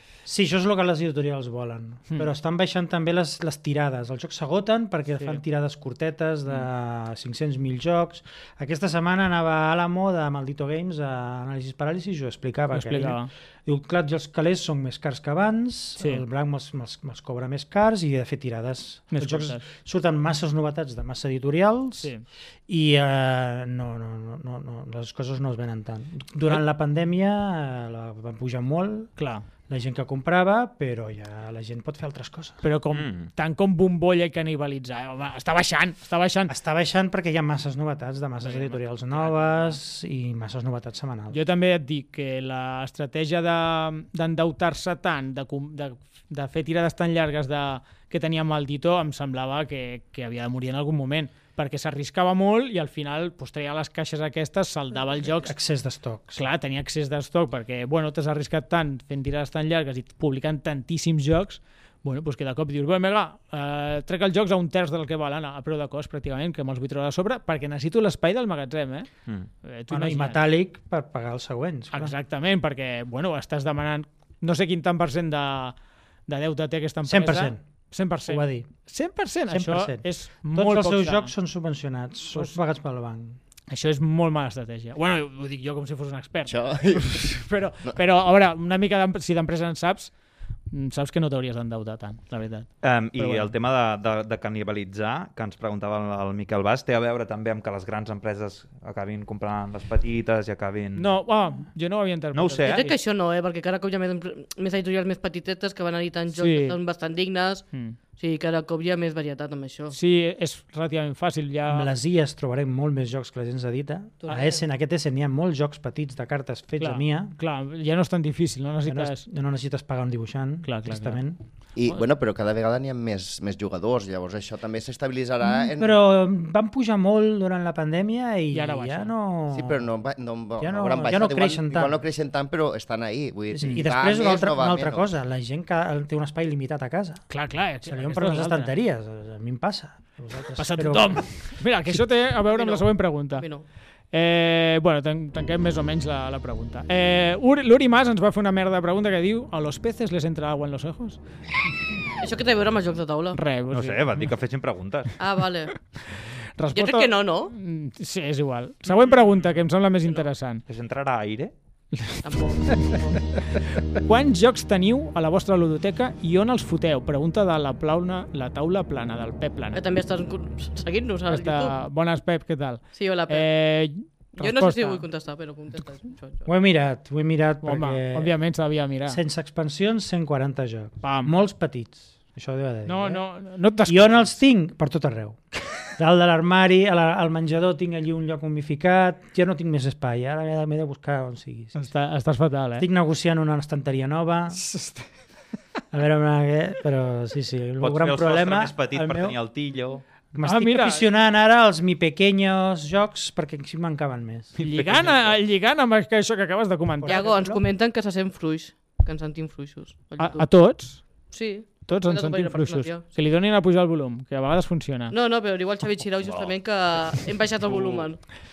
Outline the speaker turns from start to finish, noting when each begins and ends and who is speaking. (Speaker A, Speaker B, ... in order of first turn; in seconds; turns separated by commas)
Speaker A: 0.3-22.1, Speaker B: 5.1-5.4, Speaker B: 12.7-13.3, Speaker B: 16.0-16.2, Speaker B: 19.1-19.7, Speaker B: 22.0-22.2, Speaker A: 22.7-29.1, Speaker B: 29.2-29.5, Speaker A: 29.7-32.6, Speaker B: 32.6-36.5, Speaker C: 32.9-33.3, Speaker A: 36.5-41.4, Speaker B: 38.4-39.8, Speaker B: 41.3-55.6, Speaker A: 55.2-56.4, Speaker B: 56.4-69.1, Speaker B: 69.6-70.4, Speaker A: 69.9-72.1, Speaker B: 71.9-75.8, Speaker B: 76.3-81.3, Speaker A: 77.0-77.6, Speaker A: 78.3-78.7, Speaker A: 79.5-83.4, Speaker B: 82.3-82.6, Speaker B: 83.7-90.1, Speaker D: 86.5-88.0, Speaker B: 90.7-93.5, Speaker C: 92.8-101.2, Speaker B: 101.0-103.0, Speaker C: 102.3-102.9, Speaker E: 102.7-110.0, Speaker B: 106.3-106.8, Speaker B: 107.7-108.0, Speaker B: 109.9-111.9, Speaker A: 111.7-117.3, Speaker E: 114.2-114.7, Speaker B: 116.8-119.2, Speaker A: 118.8-121.4, Speaker B: 120.7-121.2, Speaker D: 121.8-126.0, Speaker A: 125.4-129.8, Speaker B: 128.5-129.1, Speaker D: 129.5-135.1, Speaker A: 130.6-132.0, Speaker A: 133.5-141.3, Speaker B: 137.3-138.8, Speaker B: 140.6-143.5, Speaker E: 142.5-143.6, Speaker B: 144.1-151.2, Speaker E: 152.2-153.4, Speaker B: 153.3-154.3, Speaker C: 153.7-155.1, Speaker E: 155.2-155.7, Speaker B: 156.6-160.6, Speaker E: 156.8-157.5, Speaker C: 158.9-159.5, Speaker C: 160.7-161.5, Speaker B: 161.9-169.8, Speaker E: 162.2-163.2, Speaker E: 169.8-171.8, Speaker B: 171.3-175.1, Speaker E: 172.9-173.5, Speaker E: 174.4-176.5, Speaker A: 176.5-178.4, Speaker B: 177.6-179.2, Speaker A: 179.1-183.2, Speaker B: 181.0-181.3, Speaker B: 182.9-184.4, Speaker A: 183.8-191.9, Speaker B: 191.8-192.9, Speaker A: 192.8-194.6, Speaker B: 194.5-195.1, Speaker A: 195.9-199.4, Speaker C: 197.8-200.0, Speaker A: 200.3-204.5, Speaker B: 200.4-201.1, Speaker C: 204.6-205.4, Speaker B: 204.6-207.2, Speaker A: 207.0-207.6, Speaker E: 207.1-210.7, Speaker B: 210.2-211.2, Speaker E: 211.3-213.0, Speaker B: 211.9-215.2, Speaker E: 215.1-218.3, Speaker C: 216.2-216.5, Speaker C: 217.7-218.0